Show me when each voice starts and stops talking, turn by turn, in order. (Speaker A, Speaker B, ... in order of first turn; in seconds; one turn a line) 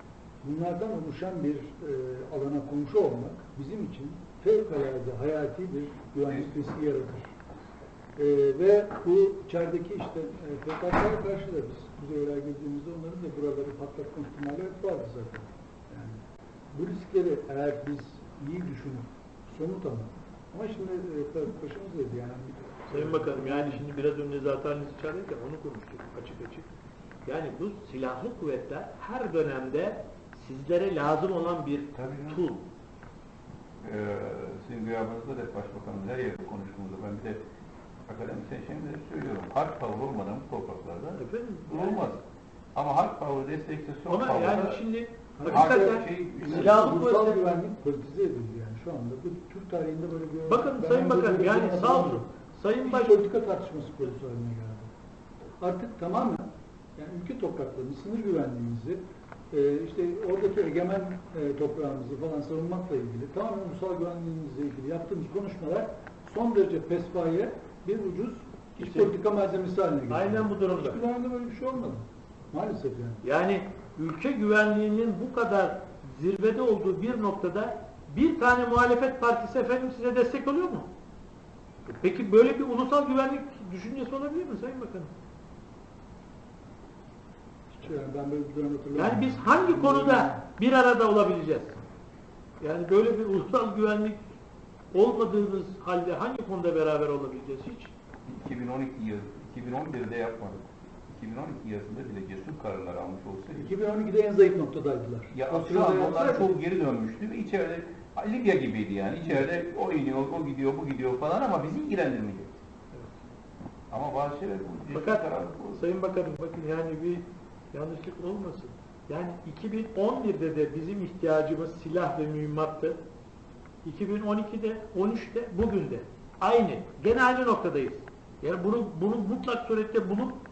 Speaker A: 0.4-7.3
Speaker A: 8.2-23.9
Speaker B: 22.9-26.7
Speaker B: 27.2-32.7
Speaker C: 31.9-32.4
Speaker C: 33.8-37.4
Speaker C: 38.1-42.2
Speaker B: 41.2-42.1
Speaker C: 42.8-44.8
Speaker B: 44.1-47.4
Speaker A: 45.4-52.3
Speaker C: 45.5-46.9
Speaker B: 50.5-53.2
Speaker A: 52.8-54.9
Speaker A: 55.6-73.2
Speaker B: 68.8-69.2
Speaker B: 70.1-71.0
Speaker B: 73.2-80.9
Speaker B: 81.9-85.1
Speaker A: 87.7-90.4
Speaker B: 88.9-91.8
Speaker B: 92.6-94.2
Speaker B: 94.9-97.9
Speaker C: 98.3-103.7
Speaker A: 103.6-106.6
Speaker C: 105.3-112.6
Speaker C: 113.9-115.8
Speaker B: 114.9-123.0
Speaker B: 123.8-130.4